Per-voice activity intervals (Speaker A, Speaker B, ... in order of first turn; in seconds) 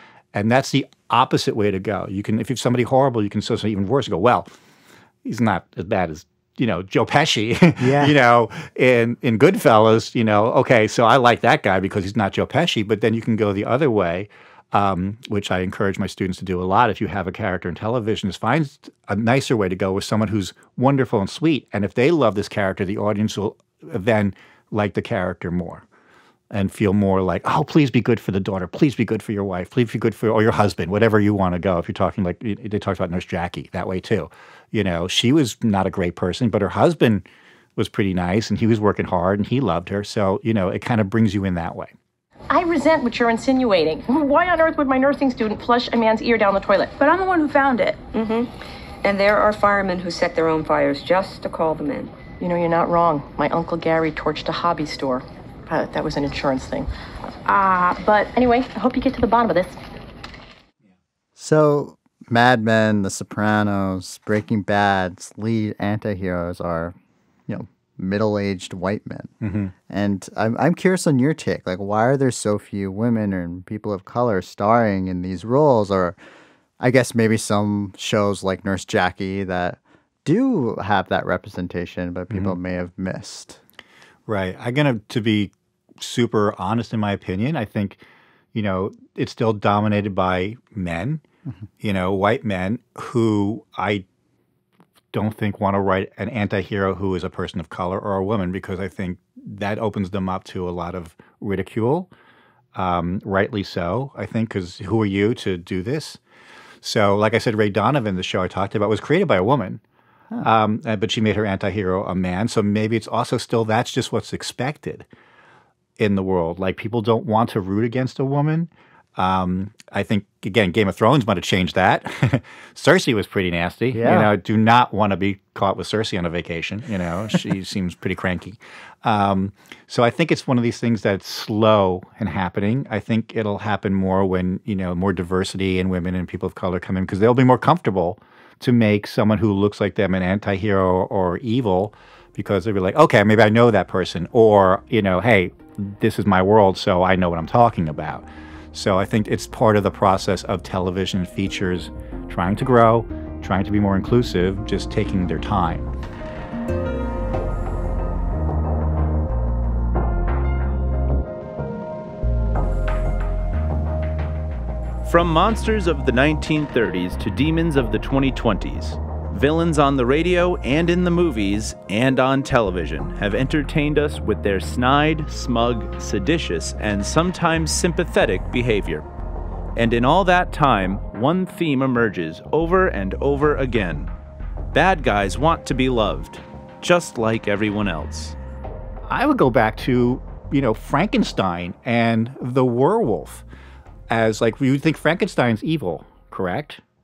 Speaker A: 0.3-4.5, 5.2-25.9, 26.5-37.2, 37.8-41.9, 69.4-69.7, 84.3-88.0, 88.5-91.2, 91.8-94.0, 95.1-102.1, 102.8-106.2, 106.8-109.8, 110.4-115.1, 116.0-155.9, 189.1-193.4, 194.1-196.8
Speaker B: 7.8-8.2, 61.4-67.0, 67.5-69.3, 69.9-76.2, 76.8-83.6, 123.9-124.3
Speaker C: 42.5-48.0, 52.4-56.9, 57.5-59.8
Speaker D: 48.1-48.5, 49.0-52.1
Speaker E: 165.0-179.1, 179.8-184.1, 184.7-188.4